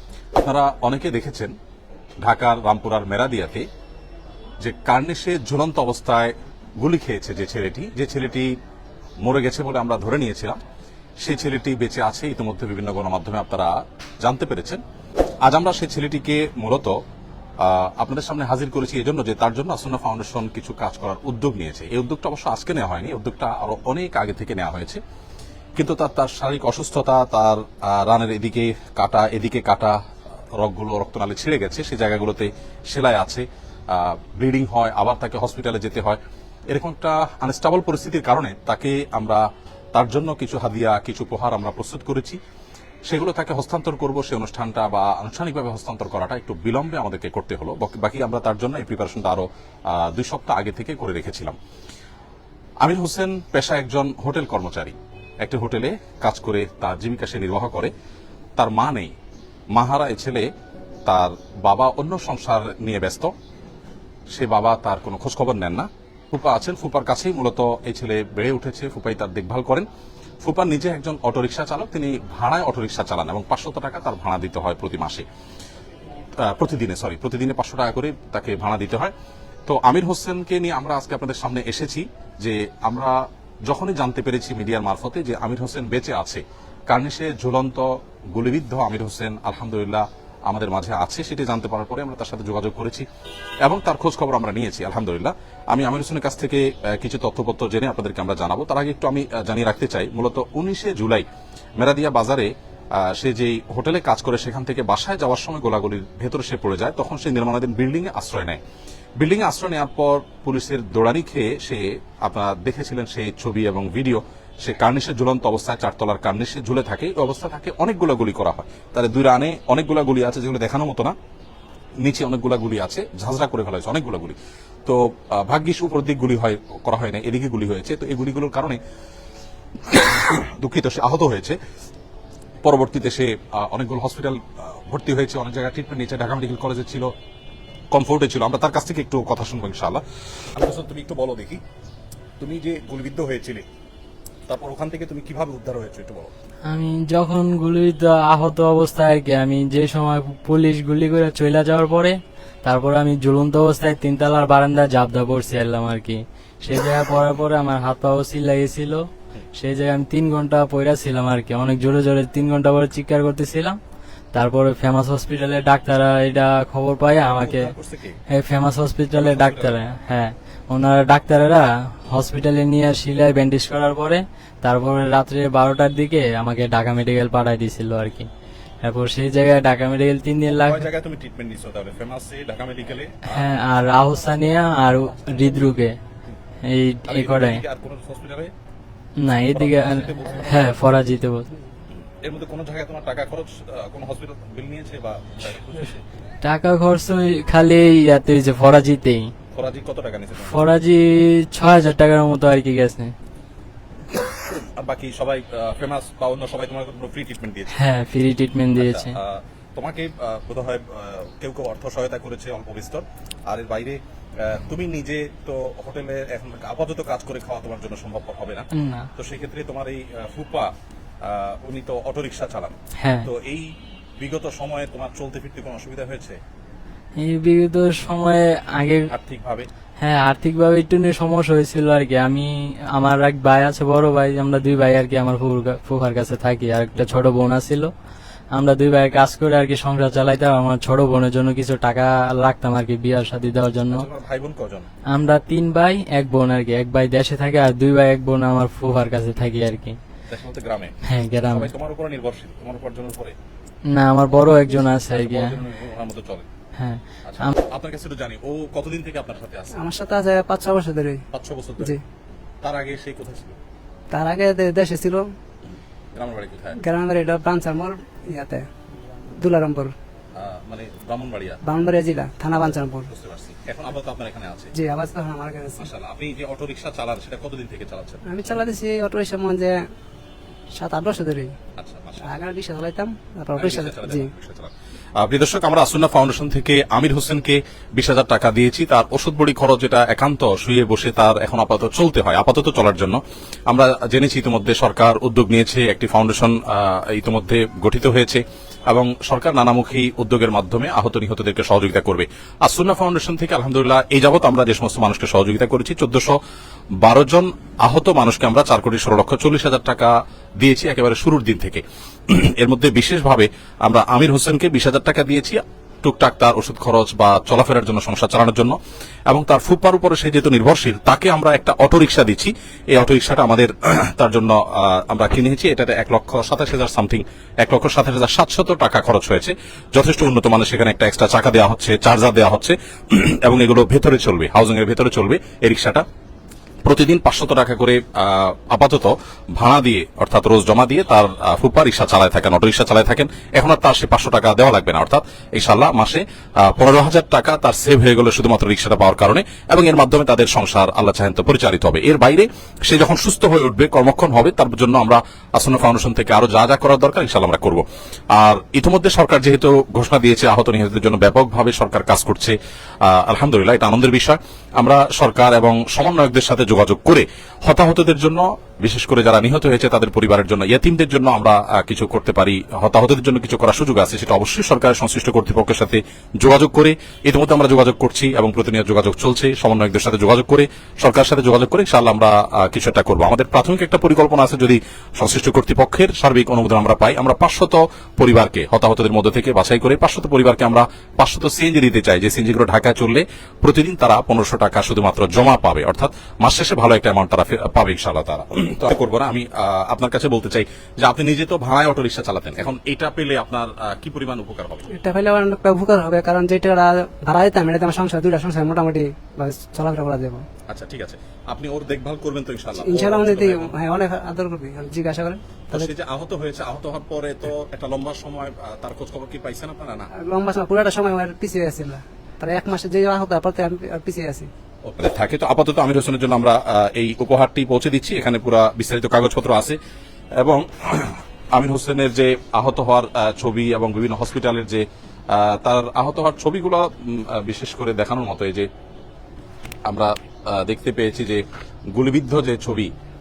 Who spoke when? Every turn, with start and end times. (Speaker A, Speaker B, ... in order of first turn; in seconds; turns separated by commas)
Speaker A: 0.4-1.5, Speaker A: 2.2-3.6, Speaker A: 4.6-8.5, Speaker A: 9.2-10.6, Speaker A: 11.2-14.8, Speaker A: 15.4-17.0, Speaker A: 17.6-25.0, Speaker A: 25.8-30.0, Speaker A: 30.6-36.2, Speaker A: 36.7-42.4, Speaker A: 43.1-51.6, Speaker A: 52.8-57.9, Speaker A: 58.6-59.1, Speaker A: 59.8-60.5, Speaker A: 61.0-63.3, Speaker A: 64.3-69.9, Speaker A: 70.4-75.2, Speaker A: 76.4-79.1, Speaker A: 79.7-93.0, Speaker A: 93.6-101.2, Speaker A: 101.8-108.6, Speaker A: 109.2-121.2, Speaker A: 122.0-128.8, Speaker A: 129.9-131.6, Speaker A: 132.6-137.1, Speaker A: 137.9-141.6, Speaker A: 142.4-143.7, Speaker A: 144.5-146.3, Speaker B: 146.7-163.8, Speaker B: 164.3-167.7, Speaker A: 167.2-168.2, Speaker B: 168.3-178.3, Speaker A: 169.1-169.8, Speaker B: 178.8-180.8, Speaker A: 180.5-183.5, Speaker B: 183.3-186.0, Speaker B: 186.7-187.6, Speaker A: 187.1-188.5, Speaker B: 189.2-191.5, Speaker A: 189.4-190.7, Speaker A: 192.2-196.0, Speaker B: 196.4-199.3, Speaker A: 199.5-200.6, Speaker B: 200.4-203.1, Speaker A: 204.1-207.8, Speaker B: 207.7-209.1, Speaker A: 208.8-220.7, Speaker B: 218.7-219.1, Speaker A: 221.2-226.4, Speaker B: 223.0-223.2, Speaker B: 227.2-229.1, Speaker A: 229.1-229.7, Speaker B: 230.0-237.9, Speaker B: 238.5-244.1, Speaker A: 243.9-244.9, Speaker B: 245.1-250.0, Speaker A: 250.3-253.3, Speaker B: 251.0-251.7, Speaker B: 253.9-255.6, Speaker A: 254.8-256.5, Speaker B: 256.8-257.6, Speaker A: 257.2-259.8, Speaker C: 259.8-261.2, Speaker A: 261.3-261.9, Speaker A: 262.6-263.6, Speaker C: 264.1-265.2, Speaker A: 266.1-266.8, Speaker C: 266.8-268.6, Speaker C: 269.3-269.9, Speaker A: 270.4-271.6, Speaker C: 271.6-273.1, Speaker A: 273.1-274.7, Speaker C: 274.8-275.8, Speaker A: 275.8-278.2, Speaker C: 278.3-279.7, Speaker C: 280.8-281.5, Speaker A: 281.8-282.4, Speaker C: 282.2-284.3, Speaker A: 283.6-306.4, Speaker A: 307.0-318.8, Speaker A: 319.3-336.0, Speaker A: 336.8-404.9, Speaker C: 404.9-410.4, Speaker A: 410.7-413.7, Speaker C: 412.8-415.9, Speaker A: 415.7-420.1, Speaker C: 420.1-424.5, Speaker A: 424.8-429.8, Speaker A: 430.4-438.7, Speaker A: 439.9-442.9